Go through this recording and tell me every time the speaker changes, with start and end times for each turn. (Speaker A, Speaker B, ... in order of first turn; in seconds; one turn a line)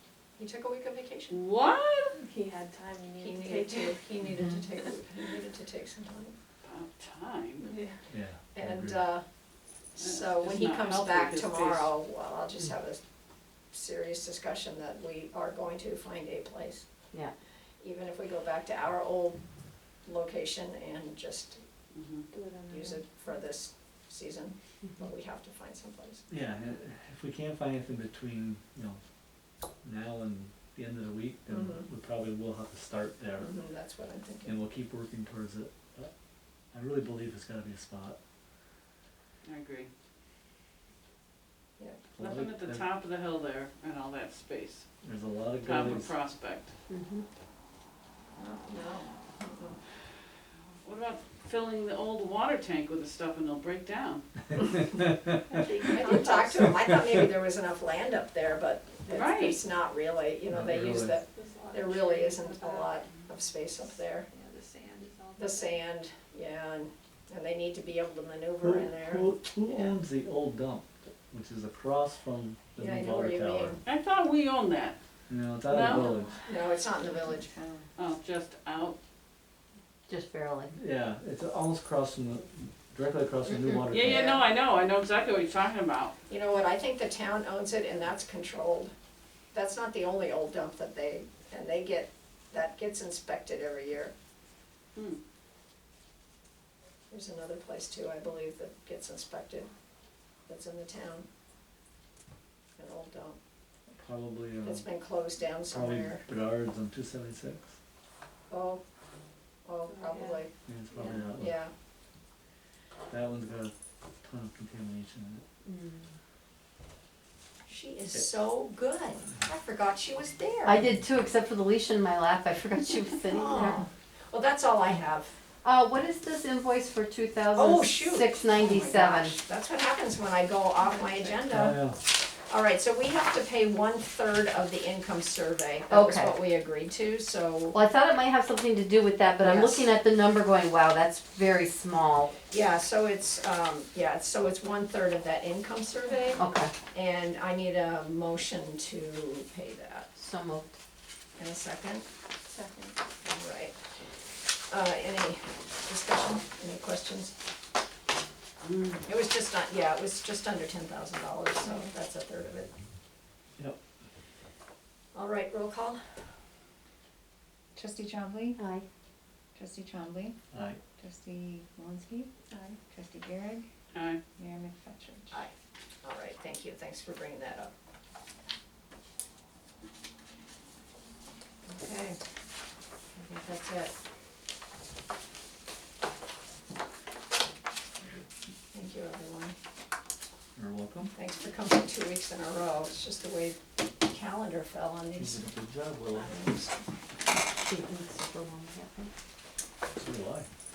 Speaker A: 0.3-1.4
Speaker B: 1.3-2.2
Speaker C: 2.1-4.1
Speaker A: 3.2-6.3
Speaker B: 6.6-7.7
Speaker C: 7.6-7.9
Speaker D: 8.1-9.1
Speaker A: 8.5-9.2
Speaker B: 10.0-11.9
Speaker A: 10.0-13.0
Speaker A: 13.7-16.8
Speaker A: 17.8-19.4
Speaker A: 20.0-21.6
Speaker B: 21.9-22.3
Speaker E: 22.3-22.7
Speaker C: 22.4-23.0
Speaker A: 22.7-26.2
Speaker D: 26.3-29.0
Speaker D: 29.8-33.5
Speaker A: 31.5-31.9
Speaker A: 33.4-34.6
Speaker D: 34.5-36.1
Speaker D: 36.7-38.2
Speaker B: 39.4-39.9
Speaker A: 41.8-42.0
Speaker D: 42.1-42.8
Speaker B: 42.2-44.8
Speaker D: 45.0-46.1
Speaker B: 45.6-46.7
Speaker F: 46.9-47.2
Speaker A: 48.4-49.8
Speaker B: 50.8-54.2
Speaker C: 55.5-56.9
Speaker A: 55.9-64.3
Speaker B: 59.1-59.6
Speaker D: 60.5-61.2
Speaker C: 61.3-65.8
Speaker A: 65.4-69.9
Speaker D: 68.6-73.8
Speaker A: 72.8-73.8
Speaker B: 73.8-75.0
Speaker D: 75.3-76.3
Speaker B: 75.7-76.2
Speaker A: 76.4-77.5
Speaker E: 77.2-77.8
Speaker B: 78.0-79.0
Speaker F: 80.1-80.7
Speaker D: 80.8-84.4
Speaker B: 83.9-86.2
Speaker A: 84.0-84.4
Speaker A: 86.3-88.9
Speaker A: 89.5-94.1
Speaker A: 97.1-99.7
Speaker A: 100.5-101.2
Speaker A: 102.8-103.4
Speaker D: 104.0-104.8
Speaker A: 104.6-106.2
Speaker D: 105.7-107.7
Speaker A: 108.5-108.8
Speaker A: 109.6-111.7
Speaker C: 109.9-110.5
Speaker D: 110.7-111.6
Speaker D: 113.1-115.4
Speaker F: 115.6-116.1
Speaker A: 117.7-120.9
Speaker F: 120.6-123.8
Speaker A: 123.2-125.3
Speaker F: 125.6-129.4
Speaker A: 127.5-137.8
Speaker D: 131.5-132.0
Speaker F: 135.9-136.4
Speaker F: 137.7-142.3
Speaker A: 139.3-139.9
Speaker A: 142.5-150.1
Speaker F: 146.4-146.7
Speaker F: 150.2-150.8
Speaker A: 151.3-152.1
Speaker E: 152.5-152.9
Speaker A: 153.2-153.8
Speaker A: 154.7-157.3
Speaker B: 158.6-158.9
Speaker A: 159.0-162.7
Speaker A: 165.1-166.0
Speaker E: 167.7-168.6
Speaker F: 168.6-168.8
Speaker E: 169.5-170.3
Speaker D: 170.5-170.8
Speaker E: 171.0-173.7
Speaker B: 173.9-174.2
Speaker E: 174.4-175.4
Speaker A: 175.3-177.7
Speaker A: 181.7-182.2
Speaker A: 183.1-183.9
Speaker A: 188.7-189.6
Speaker D: 190.6-191.1
Speaker A: 191.1-195.5
Speaker D: 195.2-196.4
Speaker A: 196.1-196.8
Speaker F: 197.6-199.1
Speaker D: 200.0-200.5